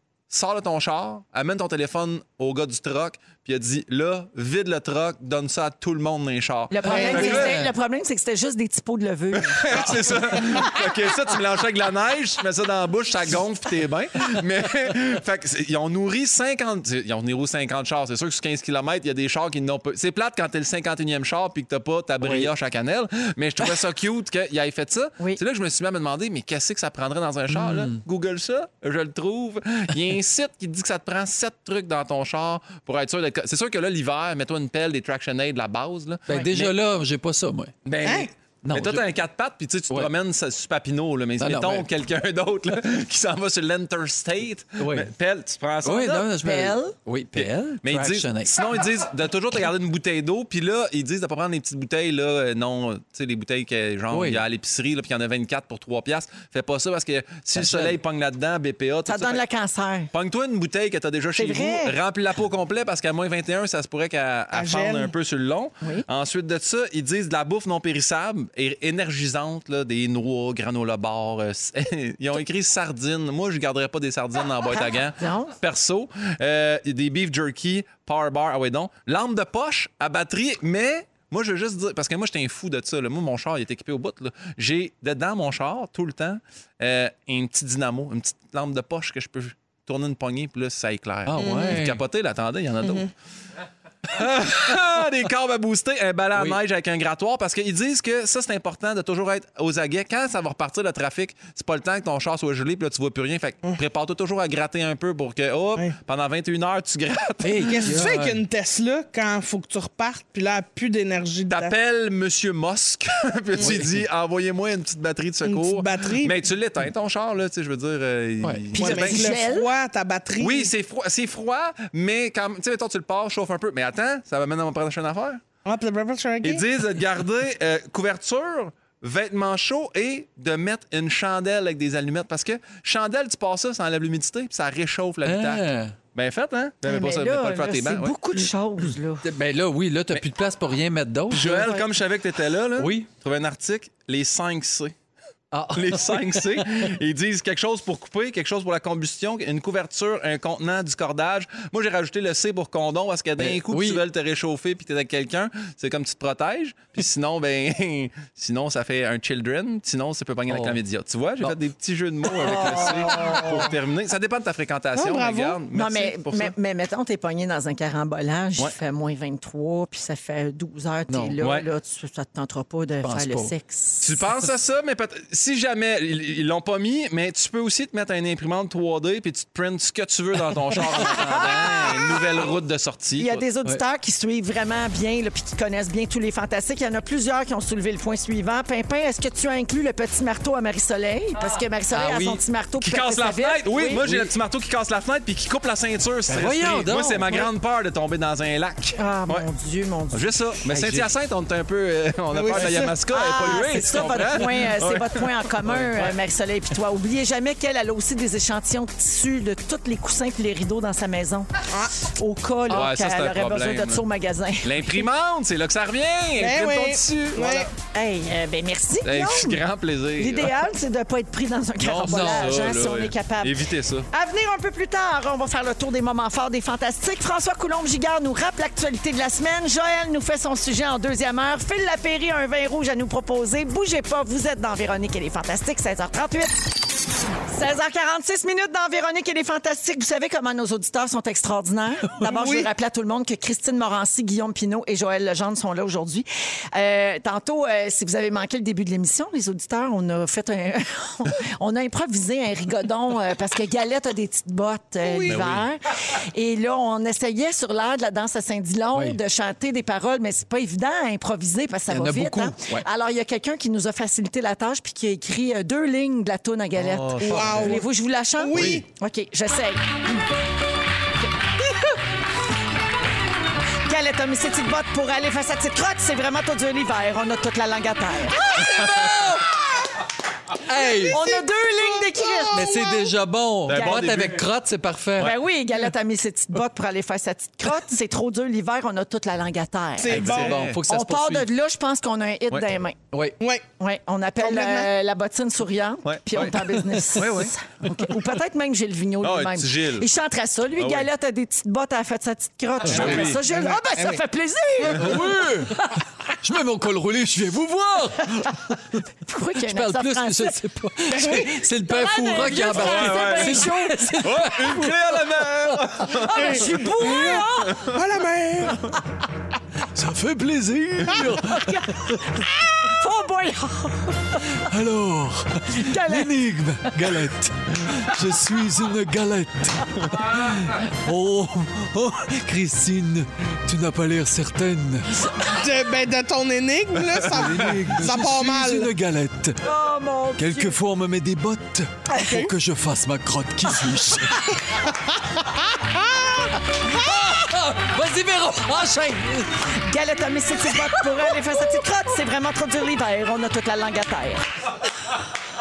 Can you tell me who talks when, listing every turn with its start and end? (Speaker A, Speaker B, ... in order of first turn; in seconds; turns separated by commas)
Speaker A: 0.3-7.6, Speaker B: 6.7-10.0, Speaker C: 6.8-7.7, Speaker D: 7.0-7.2, Speaker A: 9.3-36.7, Speaker C: 27.5-28.0, Speaker C: 36.3-37.7, Speaker A: 37.8-46.3, Speaker D: 38.0-38.3, Speaker C: 38.6-39.1, Speaker C: 41.4-41.9, Speaker C: 44.8-45.1, Speaker C: 45.8-48.6, Speaker B: 46.4-46.9, Speaker A: 47.3-59.4, Speaker C: 54.1-54.4, Speaker C: 57.5-58.0, Speaker B: 59.1-60.1, Speaker A: 60.1-93.1, Speaker B: 61.4-62.0, Speaker D: 64.5-65.1, Speaker B: 74.7-75.5, Speaker C: 91.2-92.0, Speaker D: 91.4-91.8, Speaker A: 94.1-108.0, Speaker C: 96.3-96.6, Speaker C: 107.4-108.4, Speaker D: 107.7-111.7, Speaker A: 111.5-119.4, Speaker C: 113.6-114.0, Speaker D: 115.4-116.4, Speaker B: 118.7-119.7, Speaker D: 118.8-120.7, Speaker A: 120.4-125.4, Speaker D: 125.6-126.6, Speaker A: 126.4-138.1, Speaker C: 135.2-135.9, Speaker B: 136.8-139.3, Speaker C: 139.2-141.8, Speaker A: 141.3-144.9, Speaker C: 142.8-143.1, Speaker C: 145.5-146.9, Speaker A: 145.7-166.5, Speaker C: 153.4-154.0, Speaker C: 160.5-160.8, Speaker C: 162.3-163.7, Speaker D: 164.9-165.6, Speaker B: 165.7-174.1, Speaker C: 171.1-171.4, Speaker A: 171.4-171.7, Speaker C: 173.0-173.5, Speaker A: 174.0-183.4, Speaker C: 180.9-181.3, Speaker B: 181.1-182.1, Speaker B: 183.2-194.1, Speaker C: 191.9-192.4, Speaker A: 192.8-199.5, Speaker C: 194.0-194.3, Speaker C: 196.3-197.5, Speaker B: 198.9-200.3, Speaker A: 200.1-206.1, Speaker C: 200.7-201.1, Speaker D: 202.3-202.9, Speaker B: 203.1-211.5, Speaker B: 212.0-215.1, Speaker A: 212.7-214.0, Speaker A: 214.6-217.7, Speaker D: 216.4-217.7, Speaker B: 217.8-219.6, Speaker A: 219.0-220.6, Speaker B: 220.2-223.6, Speaker A: 221.8-224.1, Speaker C: 221.9-222.6, Speaker B: 224.1-236.6, Speaker B: 237.5-269.9, Speaker D: 242.2-242.7, Speaker D: 255.0-255.4, Speaker A: 255.3-255.6, Speaker C: 261.9-262.8, Speaker A: 266.8-267.6, Speaker C: 267.2-267.8, Speaker D: 267.2-267.9, Speaker D: 268.4-268.8, Speaker C: 268.5-268.8, Speaker B: 273.8-278.5, Speaker C: 278.3-279.5, Speaker C: 280.6-281.3, Speaker B: 281.1-283.0, Speaker D: 281.1-281.4, Speaker C: 282.5-285.3, Speaker A: 283.7-284.4, Speaker B: 283.7-284.1, Speaker B: 285.2-290.3, Speaker D: 290.0-290.6, Speaker A: 290.1-290.8, Speaker C: 290.1-291.5, Speaker B: 290.9-293.0, Speaker C: 293.1-293.4, Speaker B: 293.8-305.3, Speaker D: 294.4-294.9, Speaker A: 296.0-296.6, Speaker C: 297.1-297.4, Speaker A: 297.1-297.5, Speaker A: 299.2-300.1, Speaker A: 300.8-301.1, Speaker A: 302.9-303.4, Speaker C: 302.9-303.3, Speaker D: 302.9-304.2, Speaker C: 304.9-309.0, Speaker B: 309.2-310.6, Speaker C: 309.6-316.2, Speaker D: 311.1-311.5, Speaker B: 311.2-314.5, Speaker A: 312.7-313.7, Speaker A: 314.2-316.6, Speaker B: 316.2-317.9, Speaker D: 316.3-316.7, Speaker C: 316.8-317.5, Speaker D: 317.9-318.9, Speaker C: 319.9-322.4, Speaker B: 321.4-324.6, Speaker C: 324.5-335.3, Speaker B: 325.7-326.9, Speaker D: 335.5-338.9, Speaker C: 337.2-339.6, Speaker B: 339.6-340.8, Speaker C: 340.4-344.6, Speaker C: 346.7-349.7, Speaker B: 349.8-354.4